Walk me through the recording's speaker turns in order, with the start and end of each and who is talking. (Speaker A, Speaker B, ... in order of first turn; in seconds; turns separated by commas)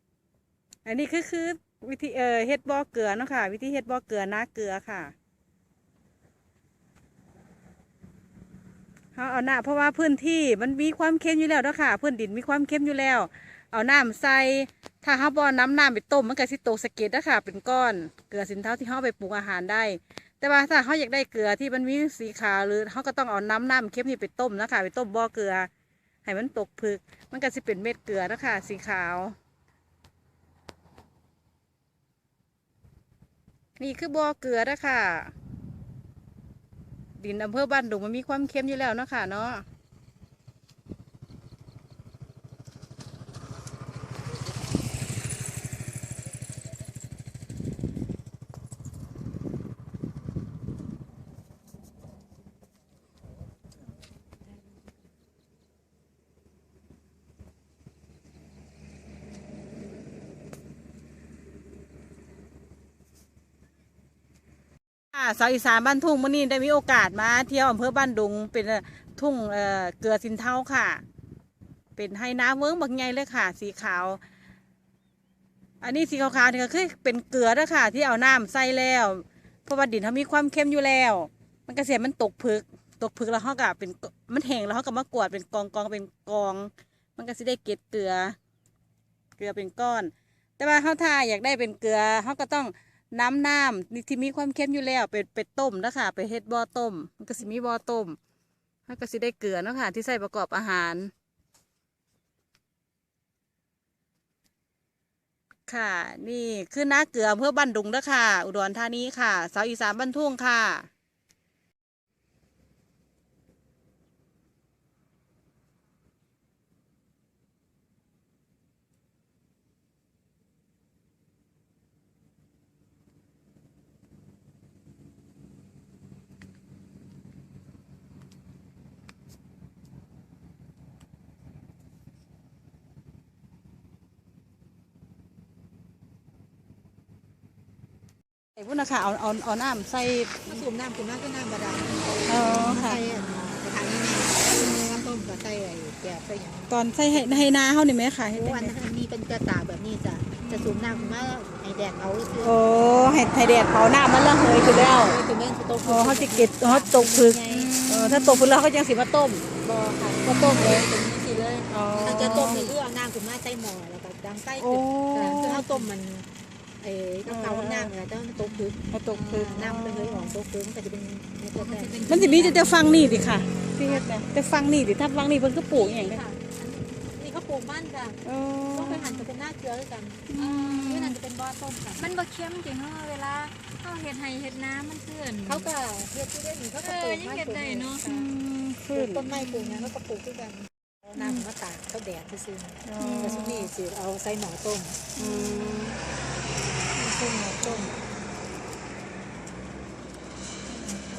Speaker A: 0.8-5.1, Speaker A: 9.2-25.7, Speaker A: 26.2-29.4, Speaker A: 33.8-35.3, Speaker A: 37.2-39.6, Speaker A: 65.1-71.0, Speaker A: 72.0-74.2, Speaker A: 75.8-88.4, Speaker A: 89.4-98.2, Speaker A: 98.9-101.1, Speaker A: 105.7-110.9, Speaker A: 138.6-140.6, Speaker B: 140.5-147.5, Speaker A: 142.3-143.0, Speaker A: 146.7-148.8, Speaker B: 148.3-153.3, Speaker A: 150.4-151.2, Speaker A: 152.4-155.2, Speaker B: 154.4-157.7, Speaker A: 155.8-160.9, Speaker C: 157.6-158.3, Speaker B: 160.2-166.3, Speaker A: 161.7-162.8, Speaker A: 164.6-165.9, Speaker B: 166.8-172.6, Speaker A: 167.3-167.9, Speaker A: 168.9-170.4, Speaker C: 171.6-172.8, Speaker A: 172.1-176.2, Speaker B: 173.8-174.1, Speaker B: 175.7-178.2, Speaker A: 178.2-179.3, Speaker B: 178.7-182.1, Speaker A: 180.3-181.2, Speaker C: 182.0-185.7, Speaker B: 185.5-188.3, Speaker C: 186.8-188.3, Speaker A: 188.1-189.9, Speaker B: 188.9-195.1, Speaker A: 191.1-191.5, Speaker A: 192.8-193.7, Speaker A: 195.2-196.0, Speaker C: 195.2-195.9, Speaker A: 197.0-197.9, Speaker B: 197.6-198.0